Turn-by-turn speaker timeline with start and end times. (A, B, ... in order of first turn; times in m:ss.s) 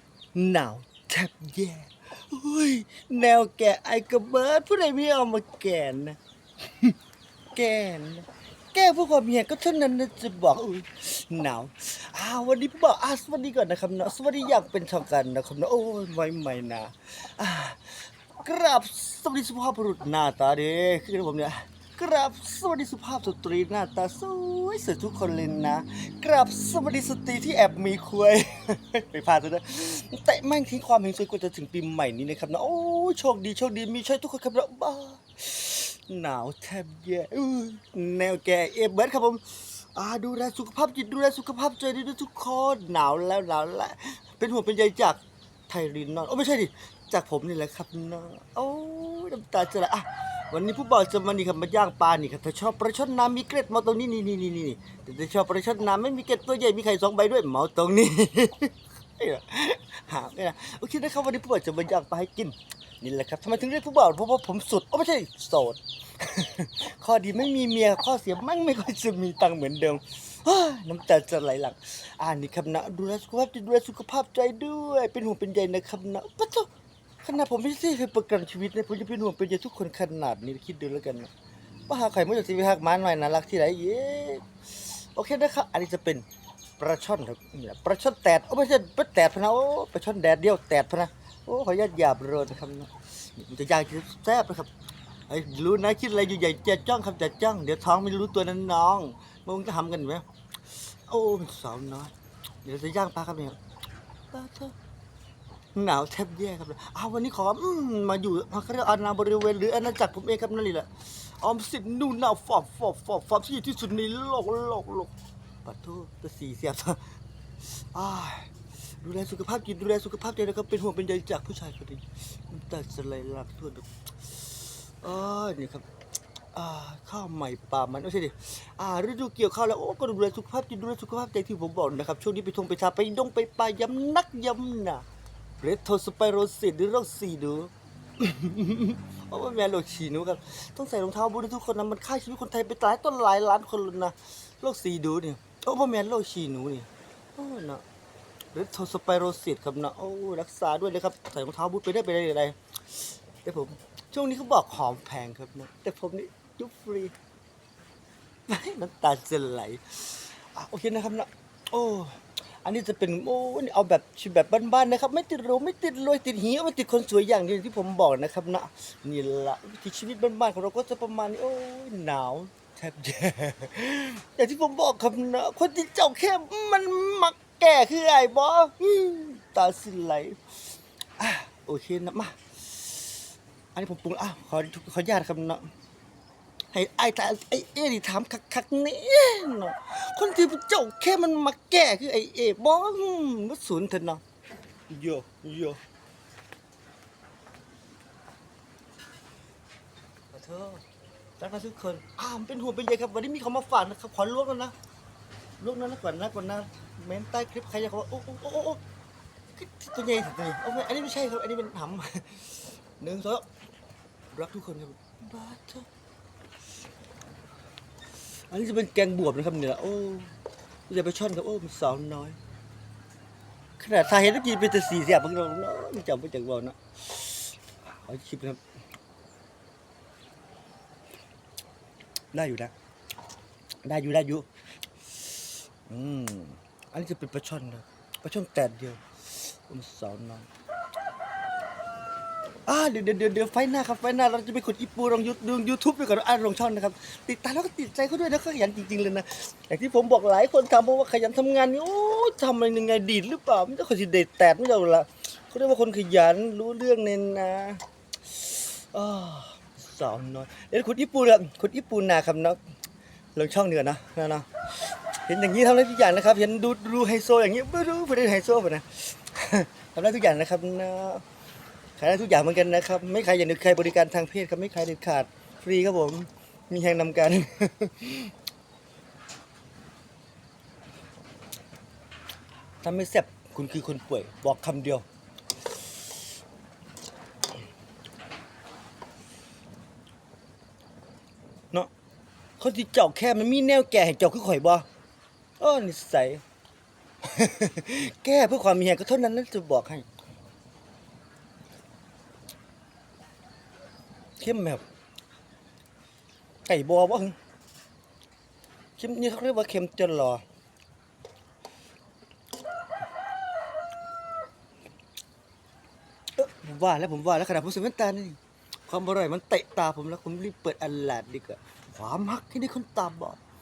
0:00.3-0:07.0 A
0:07.5-1:16.7 A
1:17.2-1:21.3 A
1:21.9-1:26.2 A
1:26.8-1:34.7 A
1:35.3-1:42.1 A
1:42.6-1:43.6 A
1:44.3-1:44.7 A
1:45.7-1:55.1 A
1:55.6-1:57.1 A
1:57.6-2:05.9 A
2:06.5-2:15.0 A
2:15.6-2:27.8 A
2:28.5-2:37.1 A
2:38.5-3:00.4 A
3:01.2-3:03.1 A
3:03.7-3:05.7 A
3:06.7-3:14.2 A
3:14.9-3:15.8 A
3:20.3-3:20.8 A
3:21.4-3:24.7 A
3:25.6-3:28.8 A
3:29.5-3:33.4 A
3:34.3-3:35.9 A
3:38.5-3:40.3 A
3:40.9-3:42.4 A
3:43.8-3:48.6 A
3:52.3-3:52.7 A
3:53.8-3:54.5 A
3:55.1-4:00.5 A
4:02.6-4:22.6 A
4:23.3-4:31.2 A
4:32.0-4:38.3 A
4:42.8-4:45.0 A
4:52.6-4:54.8 A
4:55.6-4:56.4 A
4:57.2-5:00.0 A
5:04.4-5:04.8 A
5:06.6-5:07.4 A
5:09.0-5:10.4 A
5:16.4-5:23.4 A